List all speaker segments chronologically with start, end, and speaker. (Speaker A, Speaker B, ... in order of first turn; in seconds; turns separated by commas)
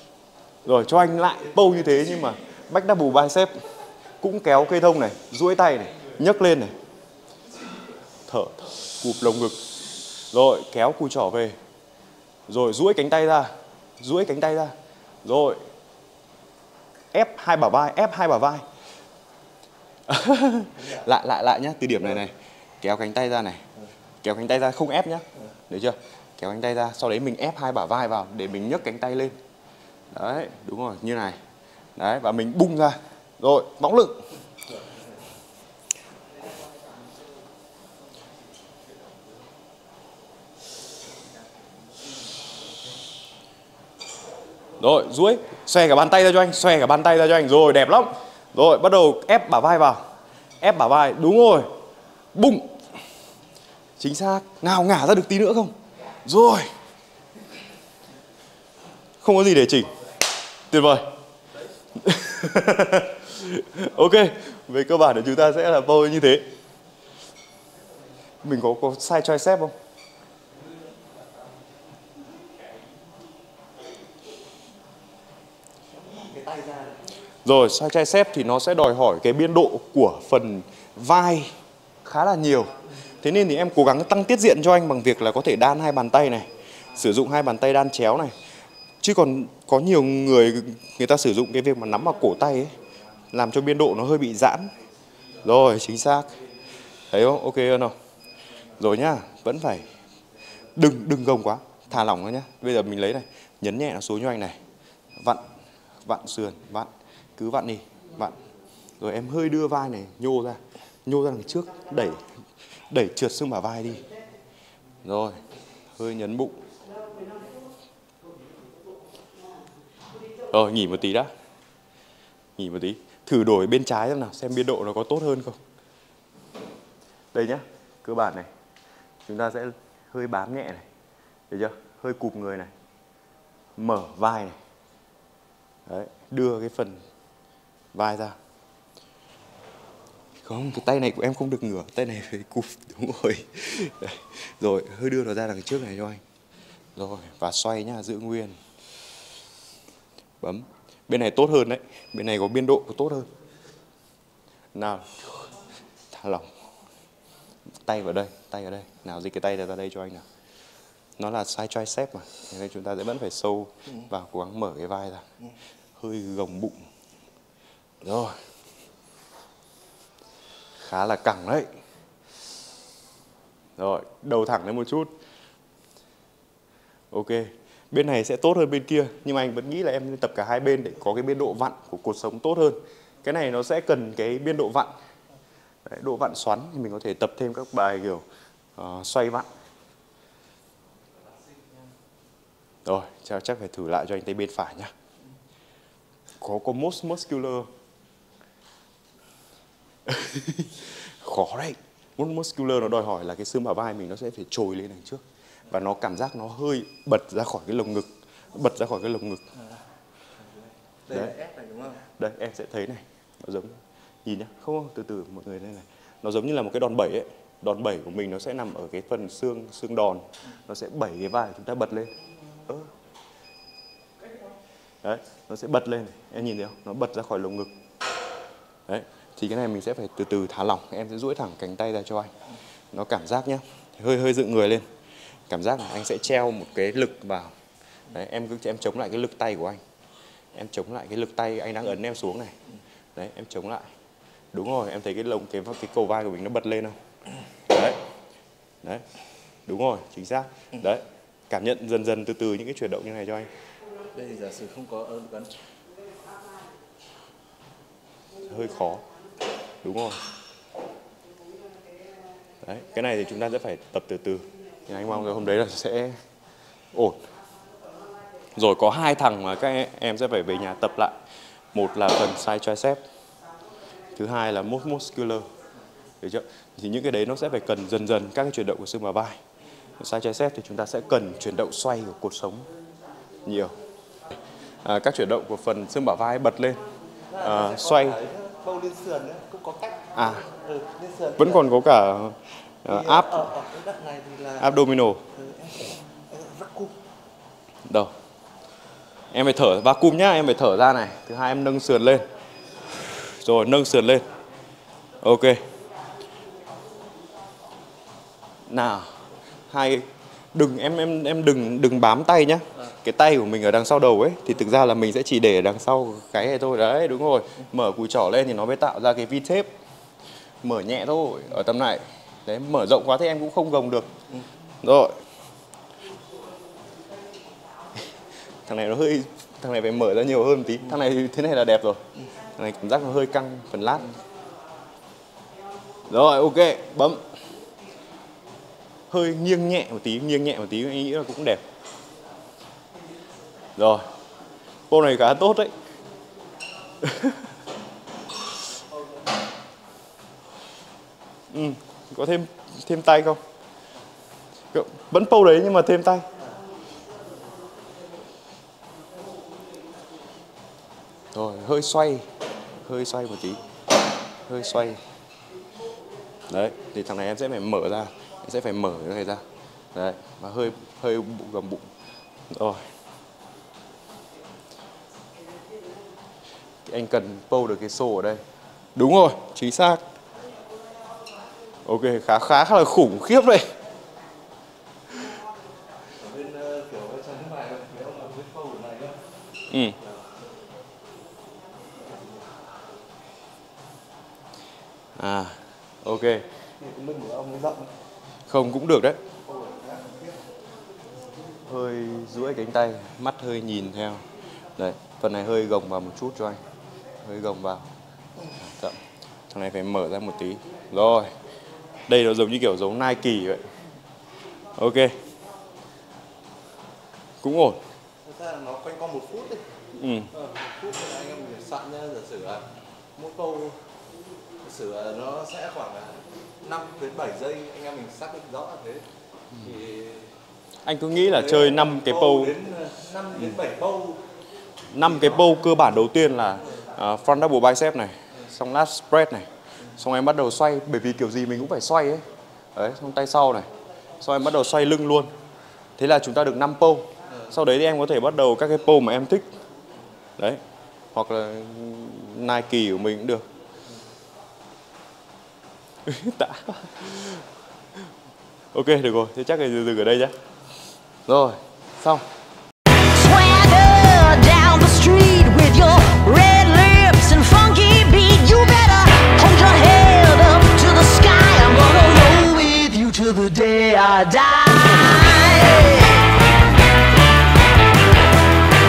Speaker A: 0.7-3.5, Speaker A: 4.2-6.7, Speaker A: 8.3-9.6, Speaker A: 10.3-11.5, Speaker A: 12.5-14.7, Speaker A: 15.2-15.6, Speaker A: 17.1-18.6, Speaker A: 20.1-23.6, Speaker A: 24.2-29.3, Speaker A: 30.1-31.4, Speaker A: 32.0-34.2, Speaker A: 44.8-50.0, Speaker A: 50.6-51.7, Speaker A: 52.3-52.7, Speaker A: 54.0-56.7, Speaker A: 59.2-59.9, Speaker A: 60.7-61.1, Speaker A: 62.0-66.5, Speaker A: 68.4-69.7, Speaker B: 76.0-77.0, Speaker A: 77.4-81.5, Speaker A: 82.0-88.3, Speaker A: 89.0-92.7, Speaker A: 93.3-94.7, Speaker A: 95.4-96.3, Speaker A: 97.1-97.9, Speaker A: 98.8-99.8, Speaker A: 100.8-104.6, Speaker A: 106.0-108.3, Speaker A: 109.0-112.2, Speaker A: 112.9-114.0, Speaker A: 115.0-115.4, Speaker A: 116.0-116.6, Speaker A: 120.5-121.3, Speaker A: 122.6-125.6, Speaker A: 127.3-128.5, Speaker A: 129.2-130.8, Speaker A: 131.5-132.7, Speaker A: 133.8-134.6, Speaker A: 135.9-137.0, Speaker A: 137.9-138.3, Speaker A: 140.4-146.2, Speaker A: 147.0-148.5, Speaker A: 150.4-153.3, Speaker A: 154.7-155.5, Speaker A: 156.1-156.5, Speaker A: 157.8-160.2, Speaker A: 161.2-165.2, Speaker A: 166.0-166.8, Speaker A: 168.0-168.4, Speaker A: 170.8-171.7, Speaker A: 173.8-175.1, Speaker A: 177.1-184.9, Speaker A: 185.8-188.2, Speaker A: 188.8-189.5, Speaker A: 192.8-194.9, Speaker A: 196.4-197.7, Speaker A: 200.1-209.4, Speaker B: 211.1-212.0, Speaker A: 212.0-222.1, Speaker A: 225.0-227.7, Speaker A: 228.9-232.3, Speaker A: 232.9-234.8, Speaker A: 235.5-237.5, Speaker A: 238.1-239.8, Speaker A: 240.5-242.5, Speaker A: 243.2-243.8, Speaker A: 244.5-246.9, Speaker A: 247.7-248.0, Speaker A: 249.7-253.5, Speaker B: 254.1-255.5, Speaker A: 258.5-259.0, Speaker A: 259.8-260.2, Speaker A: 262.6-266.1, Speaker A: 268.6-271.1, Speaker A: 271.7-273.0, Speaker A: 274.1-275.4, Speaker A: 276.2-279.4, Speaker A: 280.0-282.6, Speaker A: 283.4-283.7, Speaker A: 284.8-286.8, Speaker B: 287.3-291.6, Speaker A: 287.4-288.2, Speaker A: 290.1-290.5, Speaker A: 291.4-293.4, Speaker B: 292.9-294.7, Speaker A: 294.6-295.2, Speaker B: 295.3-296.9, Speaker A: 297.9-298.1, Speaker A: 299.3-302.2, Speaker A: 303.4-304.2, Speaker A: 305.2-305.6, Speaker A: 308.7-309.1, Speaker A: 309.7-319.7, Speaker A: 320.6-324.1, Speaker A: 324.8-325.1, Speaker A: 328.6-332.0, Speaker A: 332.6-334.1, Speaker A: 336.1-337.2, Speaker A: 339.1-341.6, Speaker A: 343.8-344.1, Speaker A: 344.9-345.7, Speaker A: 347.0-347.4, Speaker A: 351.5-353.4, Speaker A: 354.7-356.2, Speaker A: 361.3-362.2, Speaker A: 362.8-363.6, Speaker A: 364.5-365.0, Speaker A: 366.5-369.4, Speaker A: 369.9-371.9, Speaker A: 372.5-372.8, Speaker A: 376.9-378.4, Speaker A: 378.9-380.0, Speaker A: 381.8-383.7, Speaker B: 386.1-389.2, Speaker A: 389.7-389.9, Speaker A: 395.2-396.4, Speaker B: 396.8-397.9, Speaker A: 398.5-399.2, Speaker B: 399.4-400.4, Speaker A: 401.7-404.2, Speaker A: 404.8-406.6, Speaker A: 407.2-407.9, Speaker A: 408.6-409.0, Speaker A: 409.5-411.3, Speaker A: 412.1-413.6, Speaker A: 414.8-415.1, Speaker A: 417.4-417.8, Speaker B: 418.2-419.6, Speaker A: 420.0-420.3, Speaker B: 420.3-423.8, Speaker B: 424.6-429.1, Speaker B: 429.6-430.3, Speaker A: 430.8-432.5, Speaker B: 431.1-434.2, Speaker A: 434.9-442.2, Speaker B: 435.0-435.3, Speaker A: 442.7-443.7, Speaker A: 444.2-445.3, Speaker A: 446.0-449.5, Speaker A: 451.1-453.4, Speaker A: 456.1-457.4, Speaker A: 458.7-460.3, Speaker A: 461.3-462.2, Speaker C: 463.1-476.3